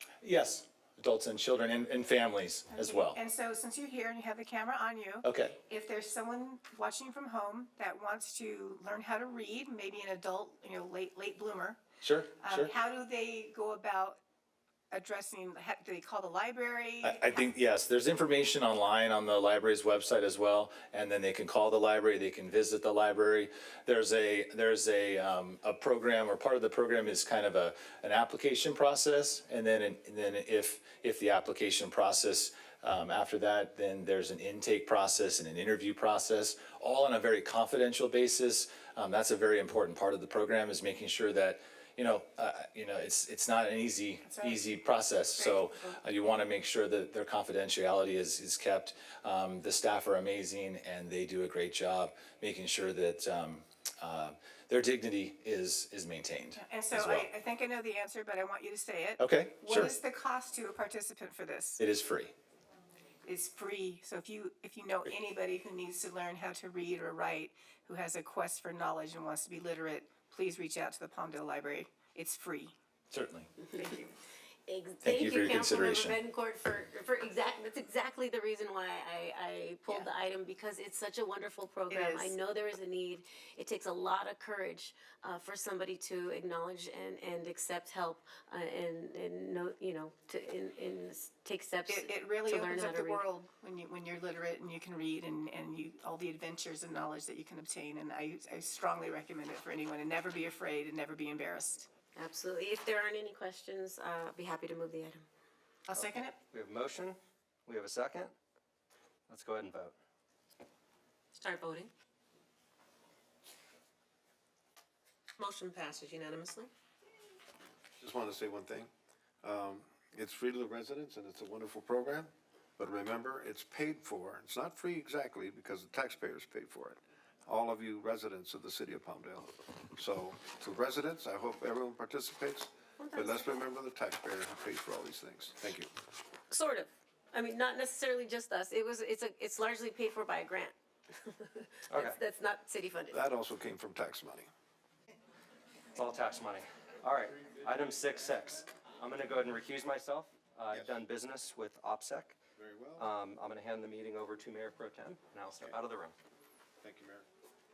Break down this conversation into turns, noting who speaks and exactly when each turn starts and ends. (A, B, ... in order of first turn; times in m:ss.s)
0:00.2-0:03.2 A
0:02.7-0:11.8 B
0:05.2-0:05.6 A
0:12.0-0:12.7 A
0:12.4-0:14.2 B
0:14.9-0:17.5 B
0:17.0-0:57.3 A
0:44.2-0:44.7 B
0:45.4-0:46.0 B
0:56.6-1:01.8 B
0:59.2-0:59.9 A
1:01.8-1:02.3 A
1:03.2-1:12.8 B
1:13.1-1:13.5 A
1:13.7-1:14.1 C
1:13.8-1:14.1 B
1:14.7-1:33.2 C
1:15.0-1:16.2 A
1:21.9-1:22.4 B
1:31.9-1:41.9 B
1:42.2-1:45.3 C
1:45.9-1:46.3 B
1:45.9-1:48.3 D
1:49.3-1:50.0 D
1:51.4-1:51.9 E
1:55.4-1:56.7 E
1:58.0-1:58.9 F
1:59.4-2:15.9 F
2:13.0-2:13.6 C
2:16.5-2:23.2 C
2:21.9-2:22.2 D
2:23.1-2:24.5 F
2:25.9-2:32.4 D
2:30.7-2:31.0 F
2:32.6-2:33.1 F
2:33.0-2:36.2 D
2:35.5-2:35.8 F
2:36.8-2:37.3 F